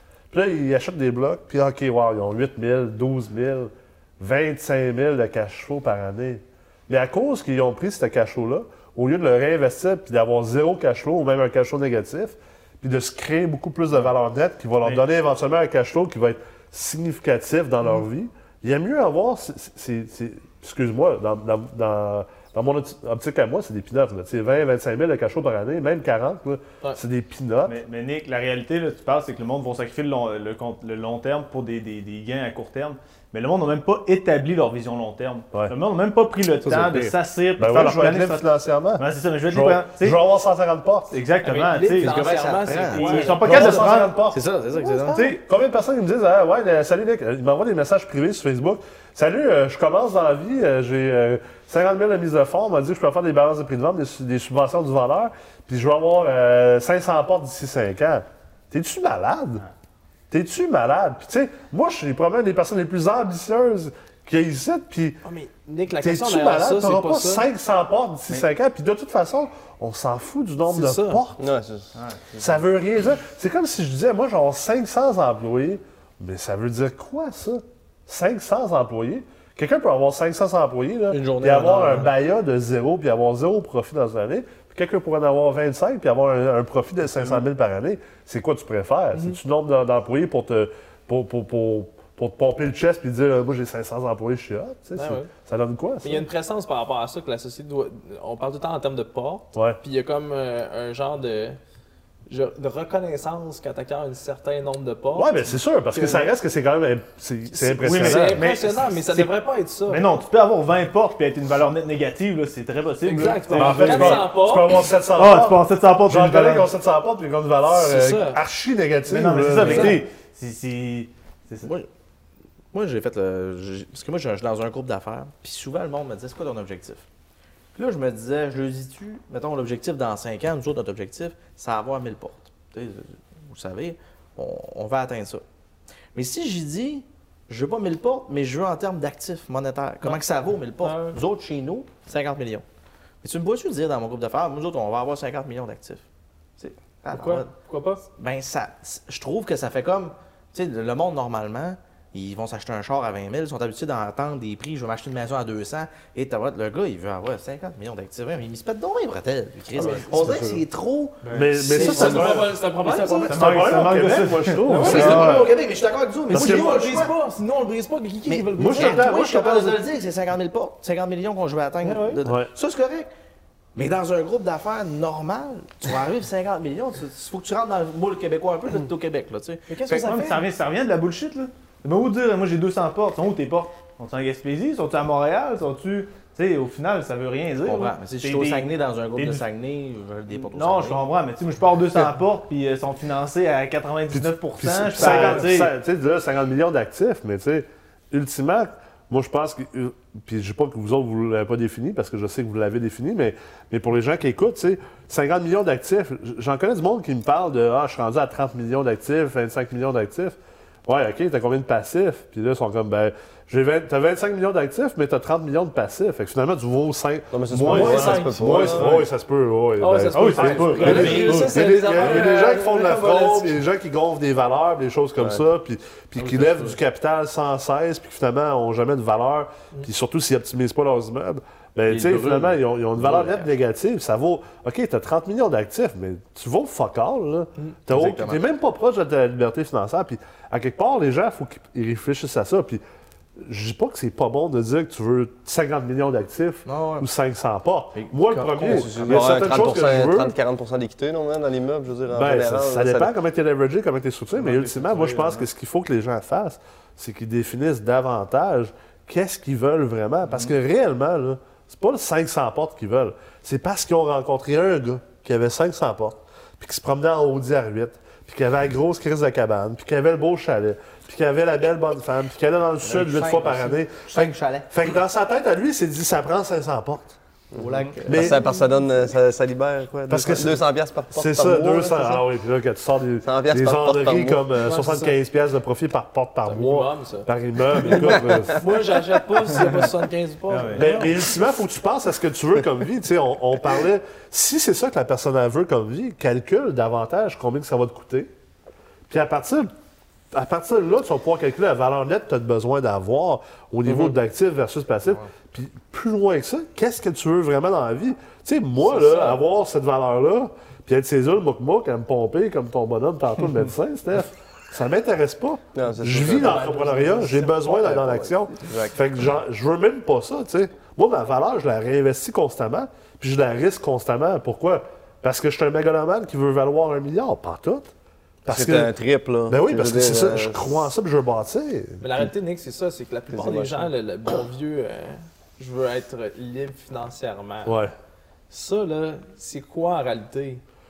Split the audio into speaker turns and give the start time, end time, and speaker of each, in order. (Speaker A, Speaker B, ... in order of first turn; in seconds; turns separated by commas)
Speaker A: 0.3-27.8, Speaker B: 27.6-38.4, Speaker C: 36.6-37.1, Speaker A: 37.6-41.1, Speaker B: 39.0-40.2, Speaker B: 41.1-42.1, Speaker D: 41.4-43.9, Speaker C: 42.0-45.3, Speaker B: 42.9-44.2, Speaker A: 43.4-44.4, Speaker D: 44.7-45.3, Speaker A: 45.1-59.6, Speaker A: 60.3-65.2, Speaker D: 65.2-67.5, Speaker A: 66.0-71.4, Speaker D: 70.7-71.2, Speaker E: 71.4-72.6, Speaker B: 71.9-72.3, Speaker A: 72.4-96.2, Speaker C: 81.1-82.1, Speaker D: 94.9-95.3, Speaker D: 96.0-101.6, Speaker A: 99.5-99.8, Speaker D: 102.3-106.3, Speaker A: 105.1-108.4, Speaker D: 107.7-110.1, Speaker B: 107.8-109.3, Speaker B: 109.9-114.3, Speaker D: 113.0-114.7, Speaker A: 113.5-120.0, Speaker B: 115.1-116.7, Speaker D: 117.7-118.4, Speaker B: 119.1-121.7, Speaker D: 119.6-120.0, Speaker C: 122.7-127.0, Speaker C: 127.7-135.4, Speaker C: 136.1-142.6, Speaker D: 140.0-140.3, Speaker D: 140.8-141.2, Speaker C: 143.2-146.0, Speaker C: 146.6-147.5, Speaker D: 147.1-148.0, Speaker C: 148.2-163.2, Speaker A: 159.8-160.6, Speaker B: 161.2-161.5, Speaker A: 161.3-165.5, Speaker D: 161.7-163.6, Speaker B: 163.2-165.5, Speaker D: 164.7-165.4, Speaker C: 164.7-167.1, Speaker D: 166.3-169.2, Speaker A: 166.3-166.9, Speaker C: 168.2-173.1, Speaker A: 168.6-169.8, Speaker D: 171.8-172.2, Speaker A: 172.2-172.5, Speaker C: 173.7-180.3, Speaker D: 179.7-180.4, Speaker B: 179.9-189.4, Speaker C: 187.6-191.1, Speaker B: 190.4-195.7, Speaker A: 194.1-242.8, Speaker E: 217.3-219.0, Speaker B: 217.7-218.2, Speaker D: 217.7-218.8, Speaker D: 219.8-223.5, Speaker B: 220.1-222.1, Speaker C: 231.9-233.5, Speaker C: 237.9-238.4, Speaker A: 243.4-250.3, Speaker C: 246.7-247.1, Speaker C: 247.9-249.6, Speaker E: 248.7-253.1, Speaker A: 252.1-277.2, Speaker B: 254.4-255.4, Speaker C: 272.8-274.7, Speaker E: 277.5-282.1, Speaker C: 277.6-278.4, Speaker A: 278.1-278.4, Speaker A: 280.1-288.7, Speaker E: 283.2-284.4, Speaker D: 284.6-285.1, Speaker D: 286.4-291.1, Speaker E: 288.0-288.5, Speaker B: 290.5-291.1, Speaker A: 290.7-298.3, Speaker A: 299.1-299.7, Speaker A: 300.3-327.9, Speaker D: 308.8-309.4, Speaker E: 315.7-316.8, Speaker D: 316.3-317.6, Speaker E: 317.7-318.9, Speaker A: 328.4-328.9, Speaker E: 328.5-330.8, Speaker A: 329.5-332.3, Speaker D: 332.0-337.8, Speaker E: 333.3-333.8, Speaker A: 337.6-337.9, Speaker D: 338.5-340.6